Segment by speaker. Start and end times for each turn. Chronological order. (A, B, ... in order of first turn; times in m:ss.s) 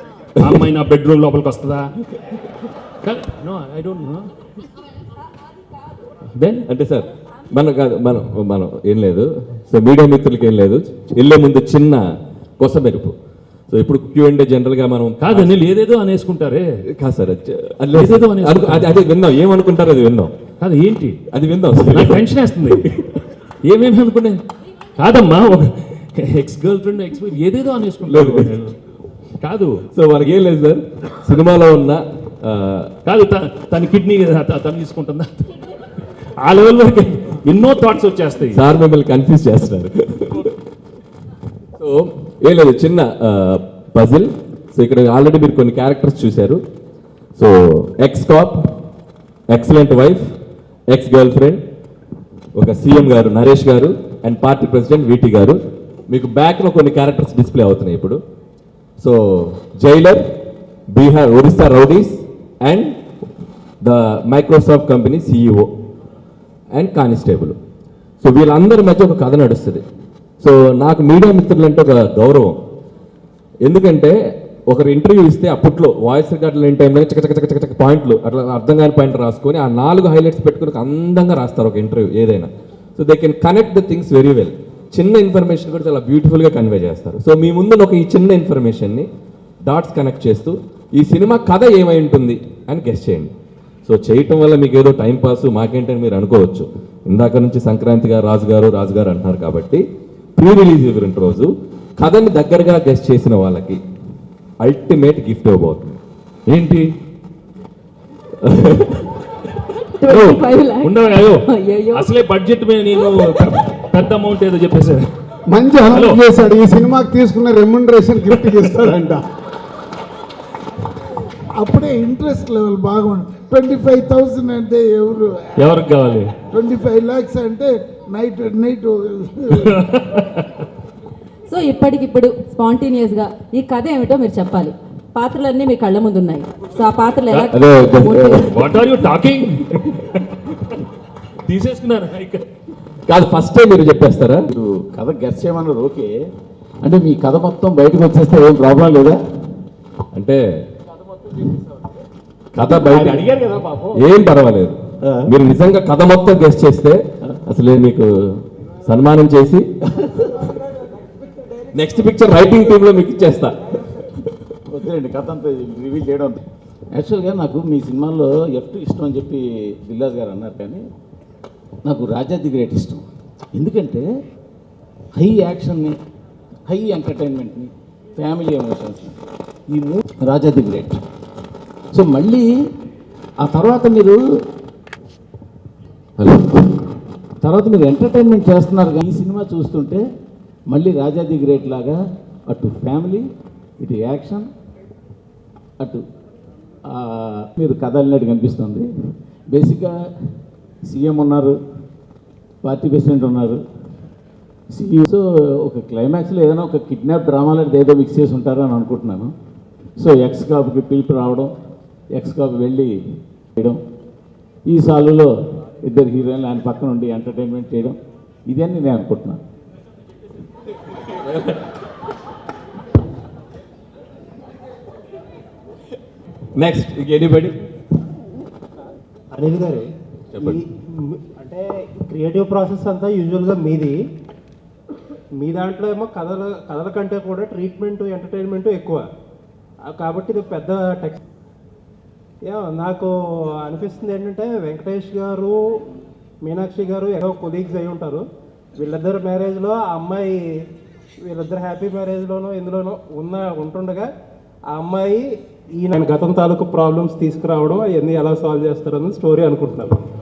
0:00.4-0:01.9 A
0:03.0-0:04.3 A
0:06.4-0:06.6 A
0:06.7-0:12.0 B
0:12.6-0:13.1 B
0:13.7-0:15.6 B
0:15.2-0:16.7 A
0:17.0-0:20.3 B
0:17.9-0:18.9 A
0:20.6-0:21.2 A
0:21.3-0:23.2 B
0:21.9-0:22.8 A
0:23.6-0:24.4 A
0:25.0-0:28.7 A
0:28.0-0:28.6 B
0:29.4-0:29.8 A
0:29.9-0:32.9 B
0:33.0-0:35.4 A
0:36.4-0:38.6 A
0:38.5-0:40.5 B
0:41.8-0:46.6 B
0:47.4-0:48.6 B
0:49.5-0:50.2 B
0:50.9-0:51.6 B
0:52.6-0:58.2 B
0:59.0-1:00.2 B
1:00.9-1:03.0 B
1:03.8-1:05.7 B
1:06.7-1:07.6 B
1:08.2-1:09.8 B
1:10.4-1:12.6 B
1:13.6-1:14.1 B
1:14.7-1:29.1 B
1:29.6-1:33.3 B
1:33.8-1:39.8 B
1:40.4-1:43.8 B
1:44.6-1:46.0 B
1:46.5-1:46.9 A
1:48.4-1:49.1 B
1:50.0-1:52.1 C
1:50.0-1:50.5 B
1:50.8-1:55.1 A
1:55.5-1:59.2 D
1:55.9-1:56.2 A
2:01.6-2:05.1 E
2:05.6-2:06.3 A
2:06.6-2:09.1 E
2:09.5-2:10.4 A
2:11.5-2:18.7 C
2:17.3-2:17.5 A
2:17.5-2:18.6 B
2:18.5-2:20.0 A
2:21.4-2:22.4 A
2:23.1-2:24.5 B
2:24.5-2:26.1 F
2:26.8-2:29.2 F
2:30.1-2:30.4 B
2:32.5-2:38.1 B
2:32.6-2:34.0 F
2:35.0-2:35.3 F
2:38.8-2:39.6 B
2:41.7-2:44.3 B
2:44.7-2:50.8 F
2:51.8-2:54.0 F
2:55.1-2:56.0 F
2:56.7-2:59.2 F
2:59.7-3:01.0 F
3:01.9-3:02.5 F
3:03.4-3:04.2 F
3:06.2-3:06.6 B
3:07.4-3:10.0 F
3:10.7-3:14.5 F
3:16.9-3:18.9 F
3:19.5-3:19.9 F
3:20.8-3:21.5 F
3:22.6-3:23.6 F
3:24.7-3:29.3 F
3:30.0-3:31.5 F
3:32.1-3:32.9 F
3:34.6-3:38.0 F
3:38.5-3:39.4 F
3:41.1-3:41.6 B
3:46.6-3:47.5 B
3:49.3-3:49.9 G
3:50.3-3:50.6 B
3:50.4-3:53.9 G
3:55.4-3:59.0 G
3:59.8-4:01.2 G
4:02.5-4:03.1 G
4:03.6-4:05.5 G
4:06.4-4:08.2 G
4:08.8-4:10.4 G
4:11.3-4:14.1 G
4:14.7-4:15.2 G
4:15.8-4:20.0 G